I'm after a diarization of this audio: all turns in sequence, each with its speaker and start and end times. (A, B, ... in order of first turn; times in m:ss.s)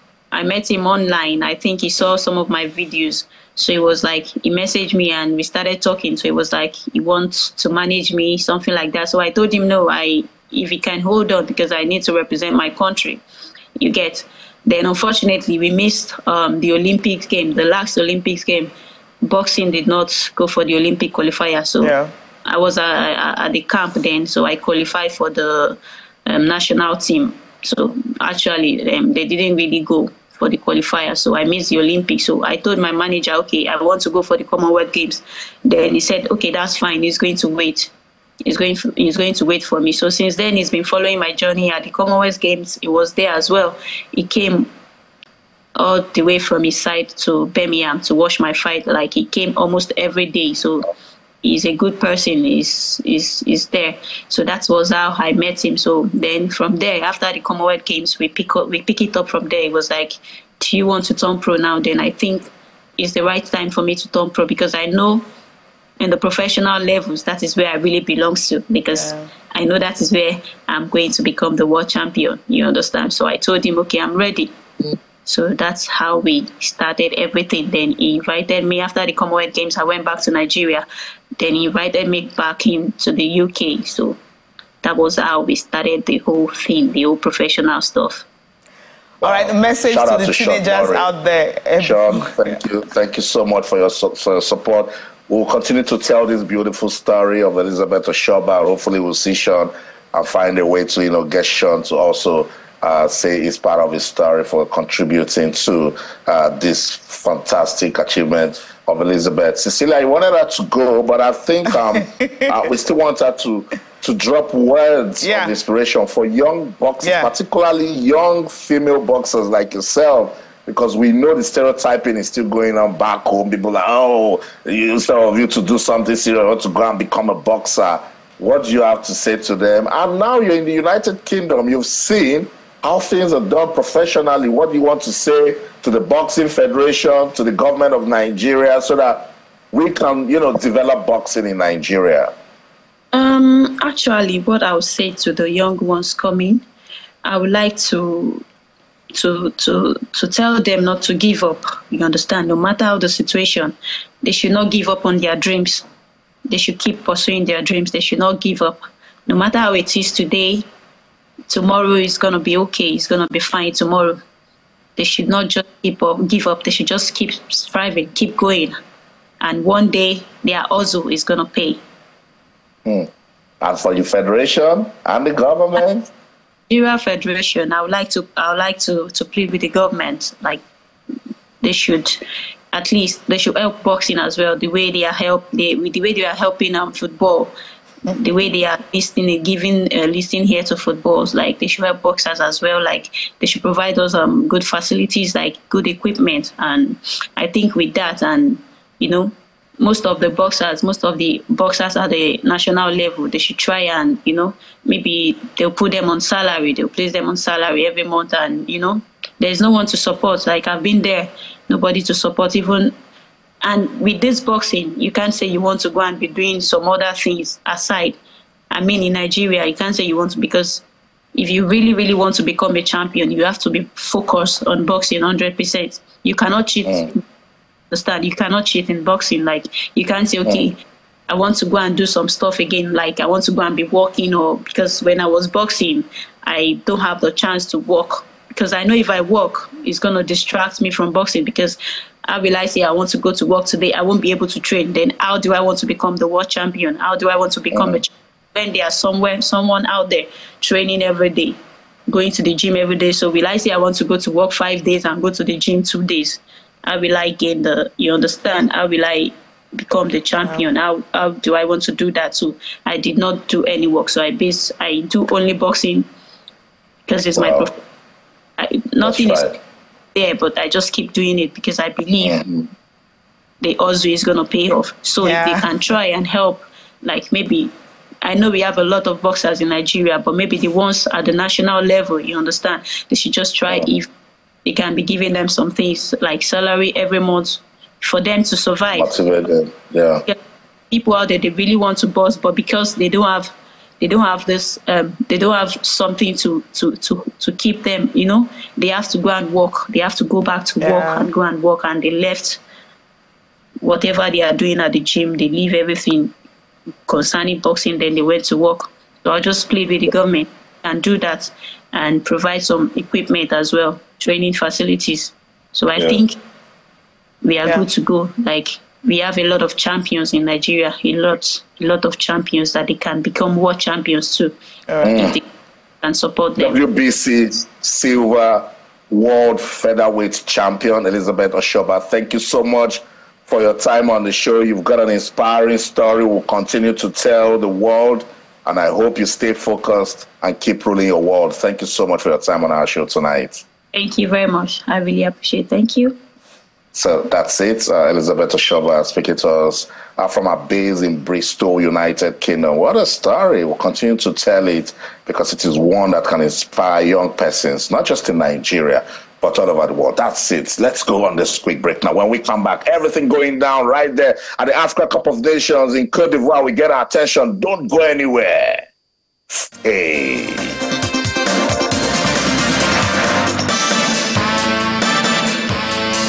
0:00.3-0:13.2 A
0:13.8-0:18.7 A
0:19.2-0:21.9 A
0:21.8-0:22.1 B
0:22.4-0:37.9 A
0:38.4-0:44.7 A
0:45.8-0:50.9 A
0:51.4-1:05.2 A
1:06.0-1:14.5 A
1:15.2-1:20.8 A
1:21.4-1:24.2 A
1:24.8-1:28.2 A
1:29.2-1:31.1 C
1:29.2-1:32.2 B
1:31.8-2:22.3 C
1:55.2-1:55.5 B
1:57.0-1:57.3 B
2:23.1-2:26.6 A
2:27.2-2:28.4 A
2:29.1-2:35.8 A
2:36.5-2:40.6 A
2:41.5-2:44.2 A
2:45.0-2:48.7 A
2:49.4-2:51.8 A
2:52.8-2:53.1 C
2:53.6-2:56.1 C
2:56.7-3:00.6 A
3:01.6-3:02.2 A
3:02.7-3:07.5 A
3:08.1-3:32.9 A
3:33.6-3:38.2 A
3:38.7-3:40.8 A
3:41.3-3:47.2 A
3:47.9-4:26.0 A
4:07.7-4:08.0 C
4:27.1-4:27.8 A
4:27.3-4:27.7 C
4:28.6-4:29.6 A
4:29.0-4:29.5 C
4:30.1-4:32.4 A
4:32.2-4:32.7 C
4:33.6-4:37.7 A
4:35.2-4:35.6 B
4:38.2-4:44.1 A
4:44.6-4:49.1 A
4:48.9-4:50.2 C
4:50.9-5:02.6 A
5:00.8-5:01.3 B
5:03.8-5:06.3 A
5:07.0-5:16.4 A
5:17.4-5:25.4 A
5:24.9-5:25.1 B
5:25.0-5:25.4 C
5:26.0-5:26.8 A
5:26.6-5:43.6 C
5:43.9-5:46.2 A
5:46.9-6:08.8 C
6:09.5-6:10.8 C